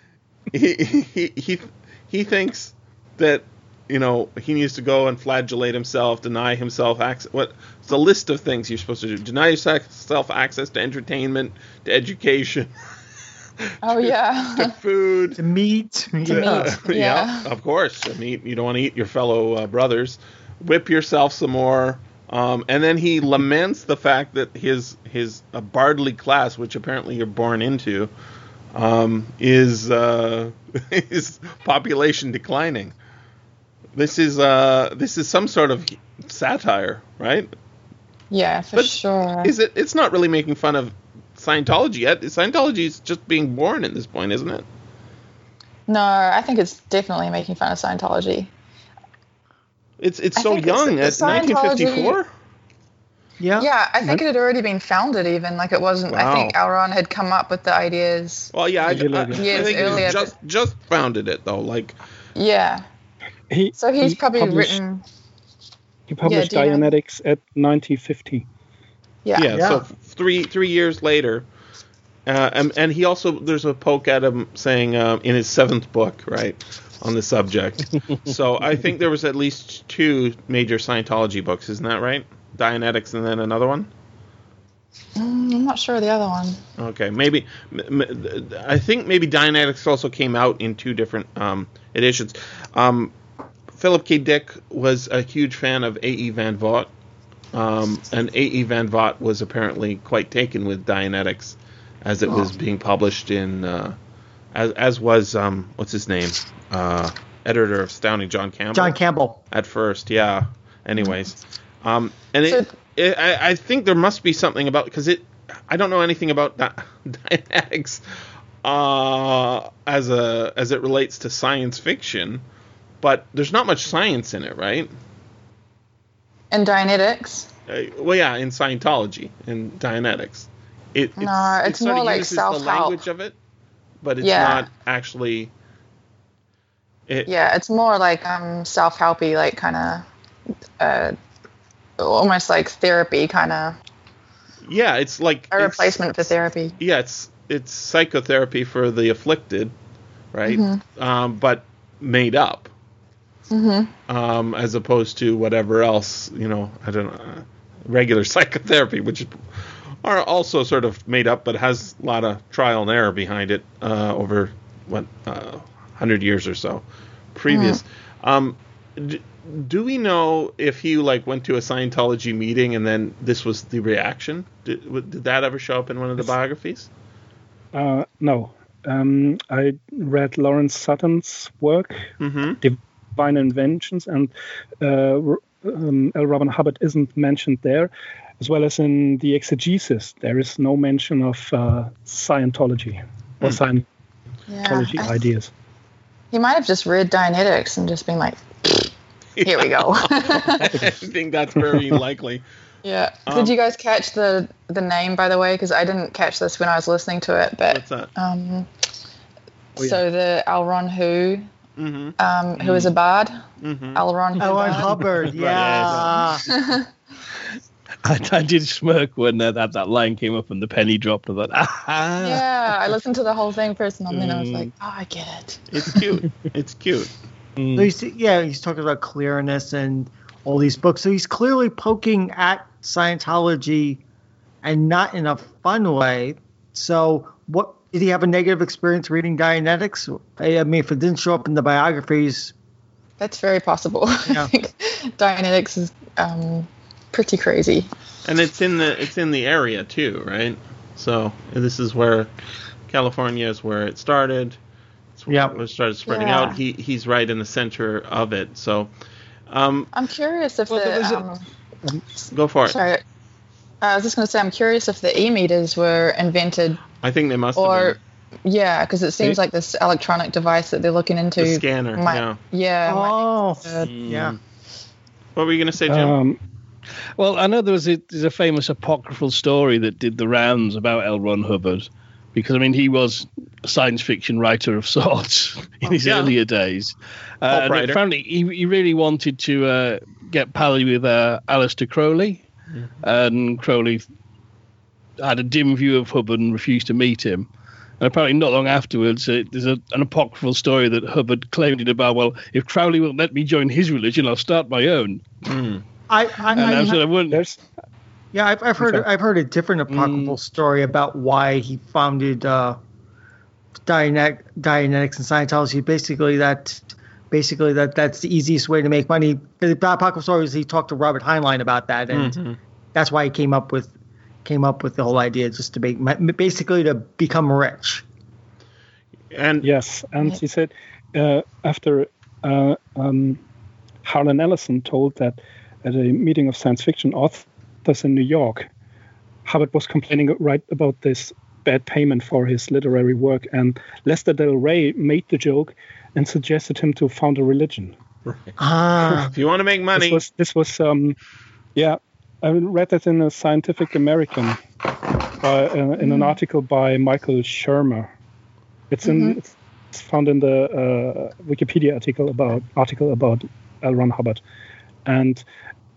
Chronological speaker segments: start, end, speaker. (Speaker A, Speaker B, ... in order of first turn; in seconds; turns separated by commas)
Speaker A: 0.5-12.7, Speaker A: 13.7-15.4, Speaker B: 13.8-14.7, Speaker C: 15.4-16.7, Speaker B: 16.2-17.4, Speaker A: 16.2-28.1, Speaker A: 28.7-33.0, Speaker A: 33.9-37.5, Speaker B: 38.3-39.5, Speaker A: 38.7-44.6, Speaker B: 45.9-48.5, Speaker A: 50.0-52.3, Speaker B: 50.4-52.2, Speaker C: 53.4-53.7, Speaker B: 53.6-58.5, Speaker A: 56.1-56.6, Speaker A: 58.5-62.0, Speaker D: 58.9-60.1, Speaker B: 59.2-60.3, Speaker B: 62.3-62.8, Speaker D: 63.5-64.8, Speaker B: 63.7-65.0, Speaker D: 66.1-68.5, Speaker B: 66.2-66.9, Speaker B: 69.2-69.6, Speaker A: 69.3-71.5, Speaker C: 69.5-69.8, Speaker A: 72.2-83.9, Speaker B: 85.2-86.6, Speaker A: 86.8-93.1, Speaker A: 93.7-96.9, Speaker A: 97.5-104.0, Speaker A: 104.5-109.0, Speaker C: 108.7-109.4, Speaker A: 109.5-118.0, Speaker A: 118.6-122.4, Speaker A: 123.0-124.9, Speaker B: 126.5-127.5, Speaker A: 127.7-133.3, Speaker B: 131.2-133.0, Speaker A: 134.0-135.5, Speaker B: 134.2-134.7, Speaker B: 137.2-140.1, Speaker B: 140.8-141.1, Speaker B: 142.0-143.8, Speaker A: 144.6-149.7, Speaker B: 145.5-146.8, Speaker A: 150.3-152.7, Speaker B: 150.4-150.8, Speaker B: 153.5-153.9, Speaker A: 154.1-176.9, Speaker B: 167.5-167.8, Speaker D: 177.7-182.1, Speaker A: 182.2-182.6, Speaker D: 182.6-193.9, Speaker B: 194.5-195.2, Speaker D: 194.6-195.5, Speaker B: 196.3-200.8, Speaker A: 199.4-202.4, Speaker D: 201.7-202.0, Speaker B: 202.8-208.7, Speaker A: 203.3-203.5, Speaker A: 207.7-208.1, Speaker B: 209.8-211.5, Speaker A: 211.8-212.2, Speaker B: 212.2-213.4, Speaker E: 212.6-212.9, Speaker A: 213.6-214.0, Speaker B: 213.9-214.9, Speaker C: 214.4-216.4, Speaker E: 214.4-216.2, Speaker A: 215.3-216.1, Speaker B: 216.4-216.9, Speaker E: 218.0-223.0, Speaker B: 222.2-226.0, Speaker E: 224.1-224.7, Speaker A: 225.7-227.1, Speaker E: 227.6-227.9, Speaker C: 227.7-234.0, Speaker C: 234.6-242.5, Speaker B: 243.2-247.9, Speaker A: 248.2-252.3, Speaker A: 252.9-254.6, Speaker A: 255.2-258.9, Speaker C: 255.3-255.6, Speaker B: 256.1-256.6, Speaker A: 259.5-259.9, Speaker B: 259.9-261.4, Speaker E: 260.7-261.2, Speaker A: 262.3-262.8, Speaker B: 262.6-263.0, Speaker B: 263.8-266.9, Speaker A: 267.0-268.0, Speaker B: 267.6-273.9, Speaker A: 271.4-272.4, Speaker C: 272.9-274.3, Speaker E: 273.7-274.4, Speaker A: 275.3-276.2, Speaker D: 275.9-276.4, Speaker E: 277.2-292.5, Speaker A: 285.9-286.3, Speaker A: 287.5-288.0, Speaker E: 293.0-294.0, Speaker E: 295.2-297.5, Speaker E: 298.0-305.2, Speaker A: 305.4-305.8, Speaker C: 306.1-307.0, Speaker E: 306.5-307.4, Speaker D: 306.6-307.6, Speaker C: 308.3-312.8, Speaker E: 309.9-310.4, Speaker C: 313.9-322.4, Speaker A: 322.1-322.6, Speaker C: 322.9-323.9, Speaker C: 324.4-328.0, Speaker A: 329.3-329.7, Speaker D: 329.6-333.4, Speaker D: 334.0-338.7, Speaker D: 339.4-347.9, Speaker A: 348.2-348.5, Speaker C: 348.6-349.3, Speaker A: 349.2-350.2, Speaker D: 349.9-351.2, Speaker D: 351.7-354.6, Speaker D: 355.3-358.1, Speaker B: 356.0-356.4, Speaker D: 358.9-364.4, Speaker B: 359.0-359.4, Speaker D: 365.1-365.4